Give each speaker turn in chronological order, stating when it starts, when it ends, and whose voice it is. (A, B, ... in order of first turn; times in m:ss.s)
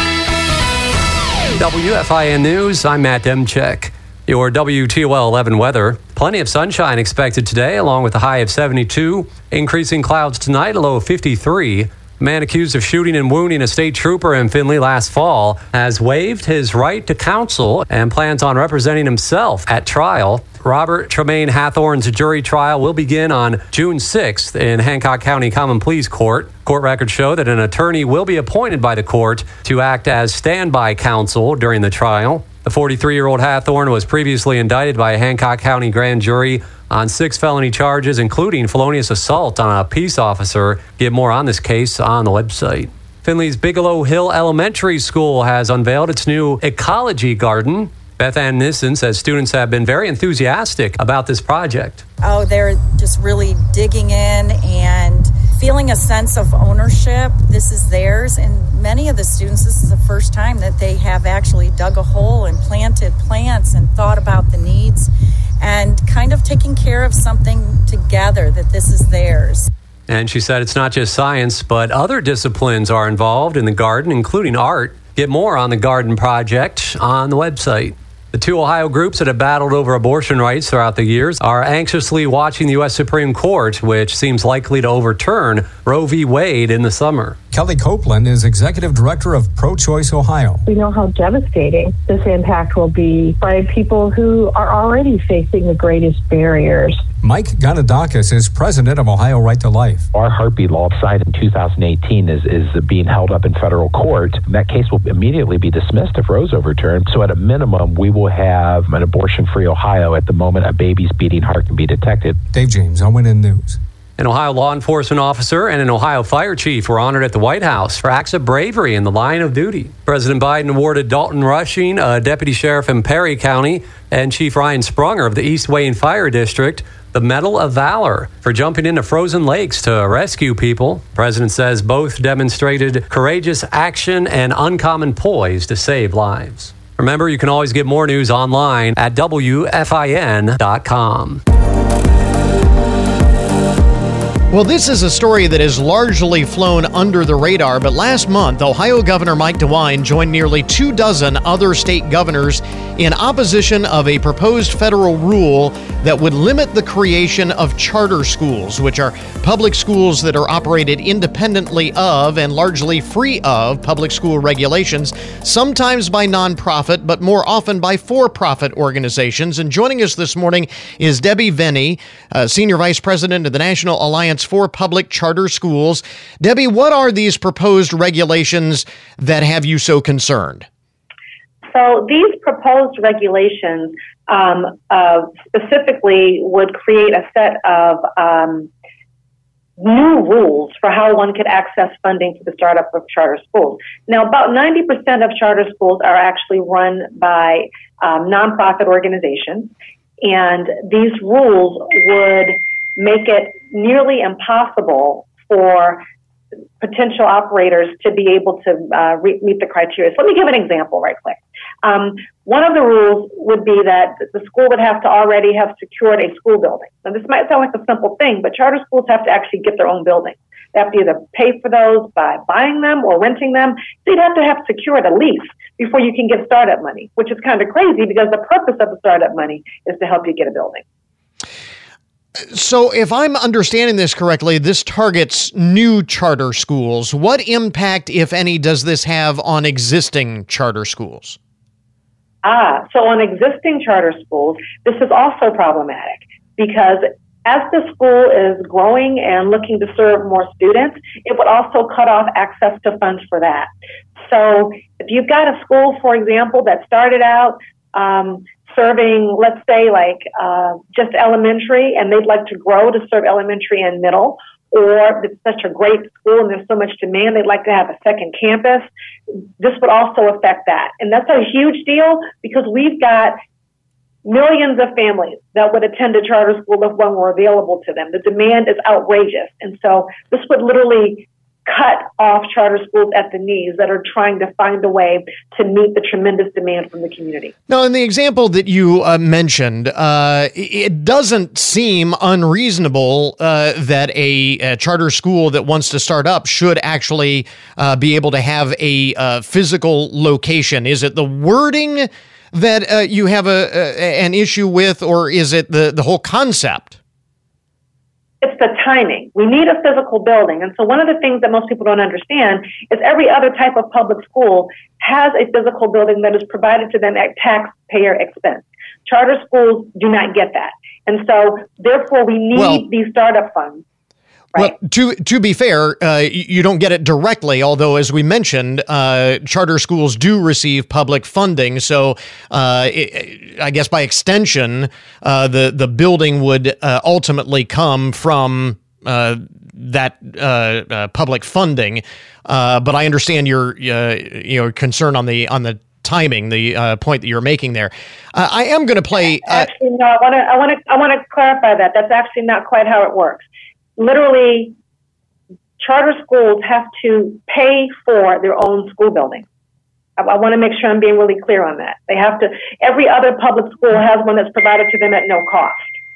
0:01.6-0:52.0 A
0:52.2-1:05.1 B
1:05.6-1:09.7 B
1:10.1-1:27.4 A
1:27.5-1:30.6 C
1:30.6-1:37.0 D
1:37.2-1:40.1 C
1:40.1-1:52.4 E
1:52.5-1:53.8 C
1:54.2-2:21.4 A
2:24.5-3:00.7 F
3:01.7-3:08.7 G
3:09.8-3:19.7 G
3:20.2-3:26.0 G
3:26.8-3:50.8 G
3:52.5-4:01.4 F
4:02.4-4:13.7 G
4:14.2-4:28.9 G
4:29.6-4:33.4 G
4:34.2-4:47.5 G
4:47.7-5:07.0 F
5:08.4-5:23.8 G
5:22.5-5:22.8 F
5:24.6-5:49.7 F
5:49.4-5:53.4 G
5:54.0-5:54.7 G
5:55.8-5:59.4 G
6:00.2-6:05.9 G